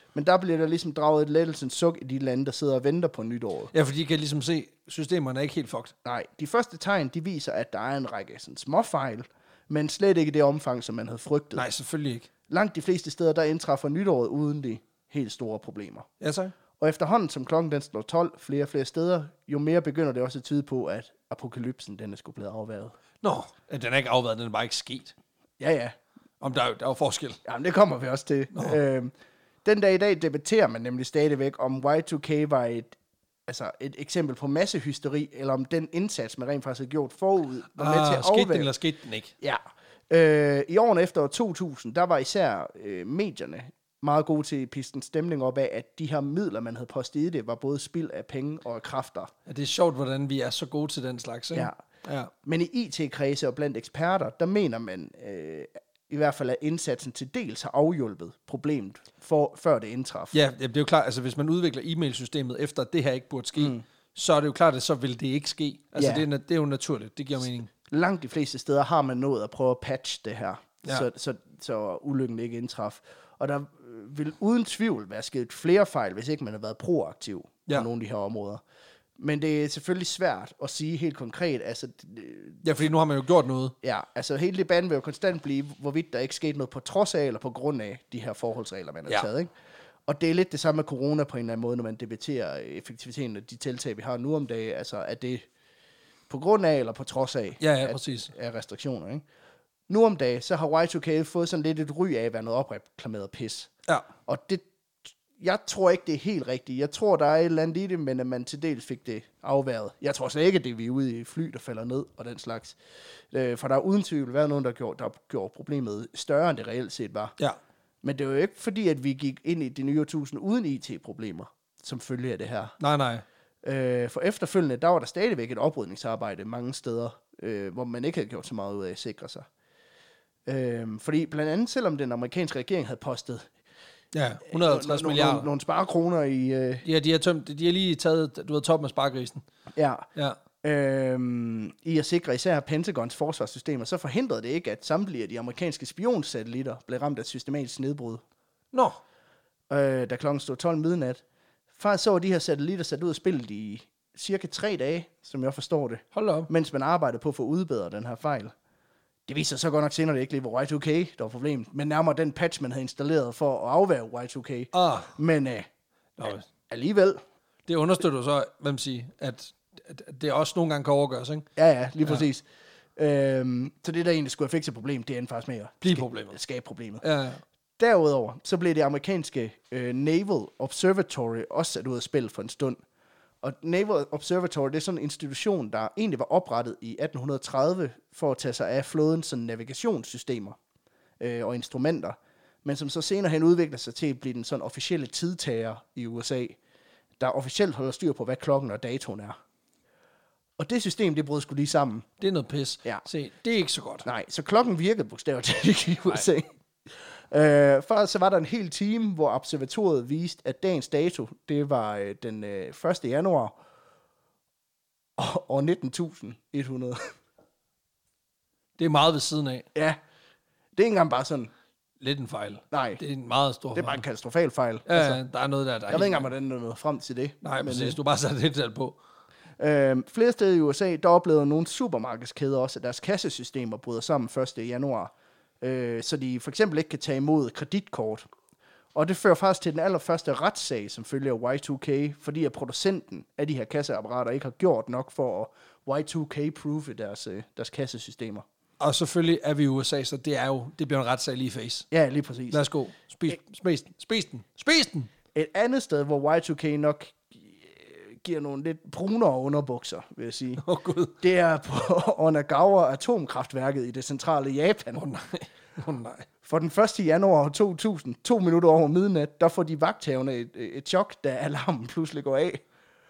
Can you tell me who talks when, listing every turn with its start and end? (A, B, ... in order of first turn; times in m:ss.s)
0:00.1-0:03.7 A
0:03.7-0:05.9 B
0:06.0-0:11.6 A
0:11.6-0:12.3 B
0:12.5-0:16.1 A
0:16.2-0:16.5 B
0:16.8-0:22.9 A
0:23.2-0:25.1 B
0:25.6-0:26.0 A
0:26.4-0:27.4 B
0:27.4-0:29.1 A
0:28.5-0:28.8 B
0:29.6-0:33.0 A
0:33.5-0:38.7 A
0:37.8-0:39.3 B
0:39.4-0:49.3 A
0:49.4-0:52.3 B
0:52.4-1:00.4 A
1:00.3-1:07.7 B
1:03.6-1:03.8 A
1:06.0-1:06.2 A
1:07.9-1:18.6 A
1:19.2-1:22.8 A
1:22.6-1:23.7 B
1:23.8-1:29.5 A
1:30.1-1:35.5 A
1:36.3-1:39.2 A
1:37.6-1:38.3 B
1:39.9-1:43.7 A
1:44.2-1:44.7 A
1:45.3-1:52.8 A
1:53.3-1:57.3 A
1:58.0-2:02.8 A
2:02.8-2:03.2 B
2:03.6-2:09.4 A
2:10.4-2:13.5 A
2:14.1-2:15.5 B
2:14.4-2:16.8 A
2:16.8-2:19.4 B
2:19.7-2:20.1 A
2:20.6-2:28.2 A
2:28.7-2:29.0 B
2:29.7-2:38.5 A
2:36.1-2:36.5 B
2:39.3-2:45.7 A
2:44.7-2:45.1 B
2:46.2-2:46.5 B
2:46.7-2:47.2 A
2:47.6-2:51.5 B
2:51.6-2:52.4 A
2:53.0-2:57.0 A
2:55.8-2:56.4 B
2:57.0-2:57.4 B
2:57.8-3:02.8 A
3:03.4-3:10.6 A
3:11.2-3:16.6 A
3:17.2-3:19.4 A
3:20.6-3:22.1 A
3:22.2-3:24.1 B
3:24.0-3:33.6 A
3:35.2-3:37.1 A
3:38.8-3:39.7 B
3:40.7-3:41.5 A
3:42.0-3:44.0 B
3:42.7-3:43.0 A
3:43.7-3:45.2 A
3:44.9-3:46.3 B
3:45.9-3:48.0 A
3:47.4-3:49.0 B
3:49.6-3:58.3 A
3:58.9-4:08.4 A
4:08.8-4:11.8 B
4:11.9-4:12.7 A
4:12.5-4:15.1 B
4:15.3-4:20.6 A
4:20.6-4:21.2 B
4:21.2-4:25.0 A
4:24.9-4:26.3 B
4:26.4-4:32.6 A